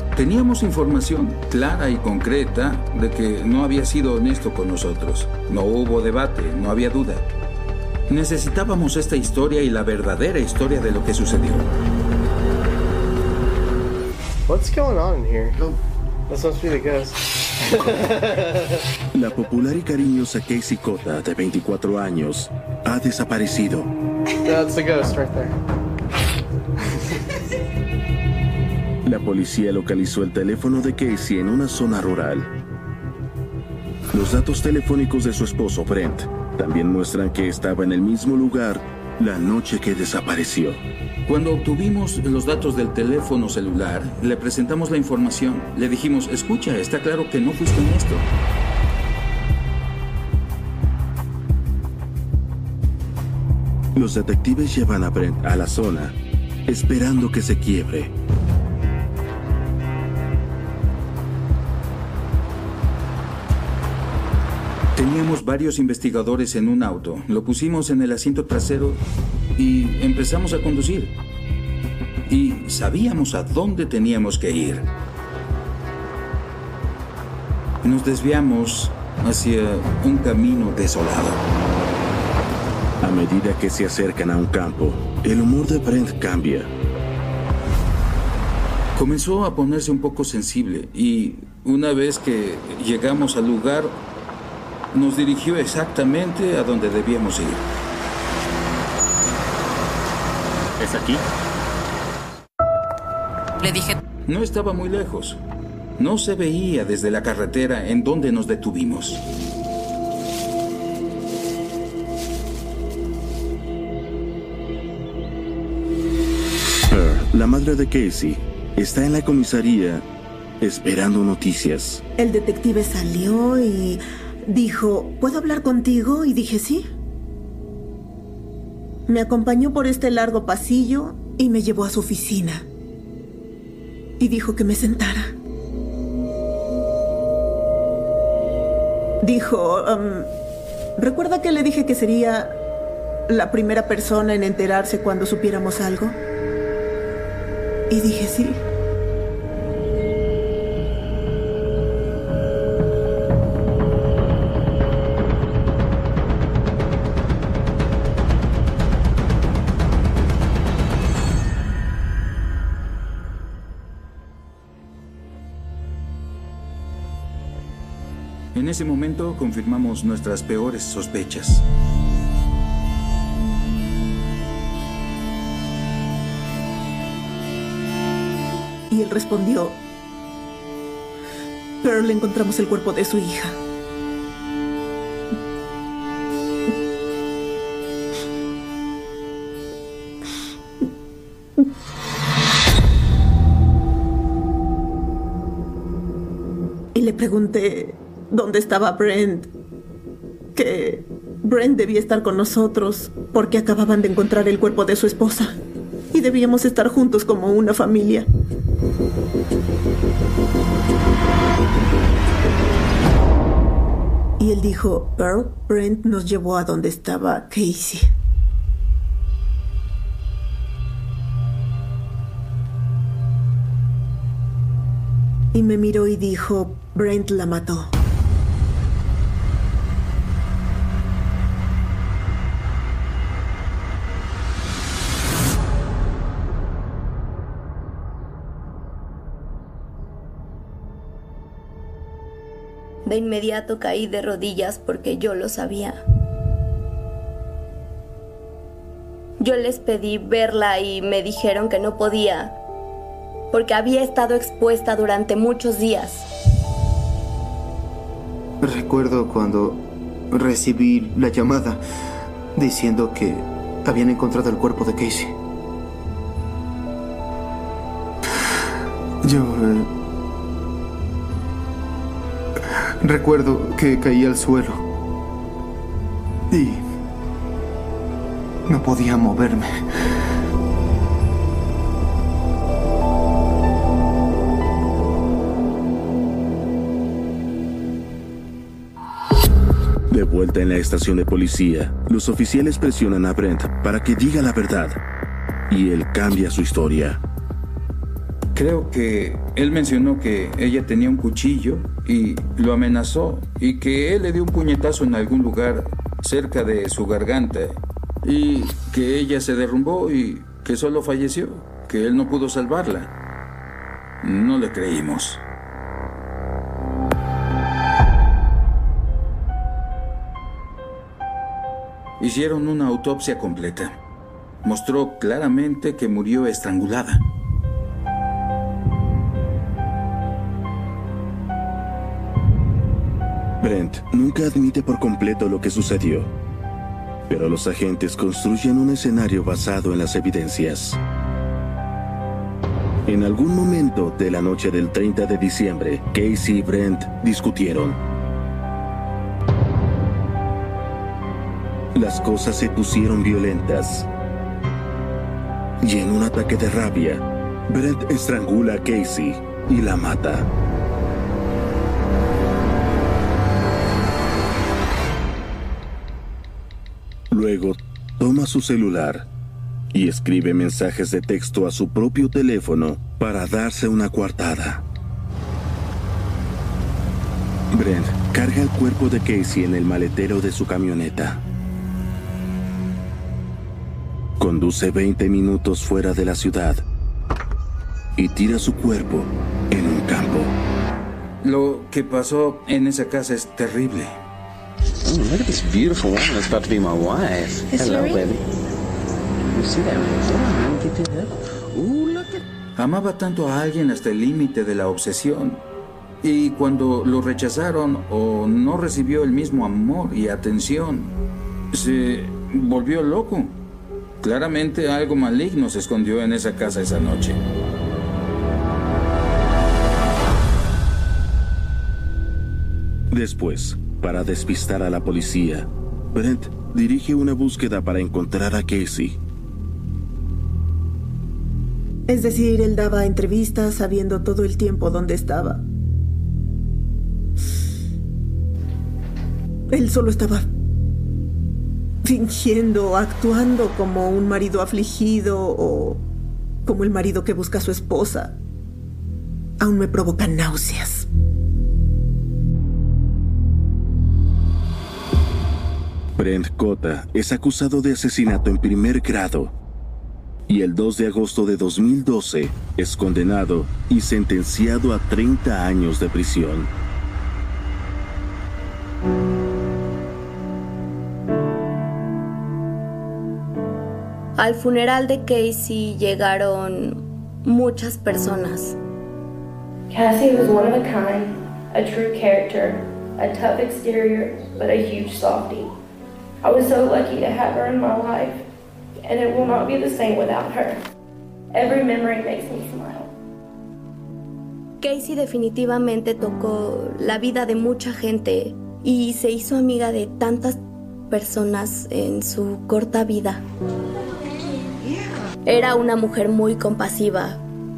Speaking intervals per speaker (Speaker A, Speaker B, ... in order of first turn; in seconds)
Speaker A: 0.1-7.2, 8.1-11.7, 41.3-48.2, 65.0-69.0, 69.6-71.1, 72.3-74.9, 77.8-81.4, 88.9-94.0, 94.9-97.6, 104.3-105.4, 106.0-109.2, 168.5-171.6, 298.5-313.1, 314.2-315.4, 322.2-324.0, 324.6-327.2, 391.4-394.1, 402.8-405.6, 406.2-411.1, 411.7-413.6, 414.2-417.4
Speaker B: 14.5-15.8, 16.3-18.8, 24.4-25.6
Speaker C: 19.1-23.9, 29.0-32.5, 34.1-40.8, 53.9-58.1, 83.0-86.7, 100.8-101.2, 116.9-120.0, 120.6-122.0, 290.1-295.0, 295.7-297.2, 333.6-336.3, 337.3-341.0, 343.1-348.0, 351.9-354.1, 355.8-360.5, 367.3-369.3, 369.9-374.8, 377.7-381.4, 384.4-386.8, 388.1-390.6, 423.1-429.2, 456.1-459.5, 460.5-466.7
Speaker D: 122.2-126.8, 129.1-132.7, 134.2-135.4, 139.2-140.3, 141.0-142.6, 143.3-146.2, 147.9-148.6, 178.9-179.8, 181.8-183.6, 196.9-199.5, 200.5-205.6, 206.1-208.3, 214.4-218.1, 225.5-227.9, 432.1-435.6, 439.7-440.5, 442.0-446.0, 446.6-448.4, 449.6-451.1
Speaker E: 243.0-246.0, 249.4-252.6, 253.5-256.3, 474.4-478.8, 494.8-503.4, 505.4-507.4
Speaker F: 258.6-261.8, 262.5-265.3, 269.2-269.9, 273.0-274.8, 276.5-276.8, 278.7-279.7
Speaker G: 395.0-398.4, 399.5-402.4
Speaker H: 479.9-485.7, 486.4-488.4, 489.0-490.8, 491.5-493.1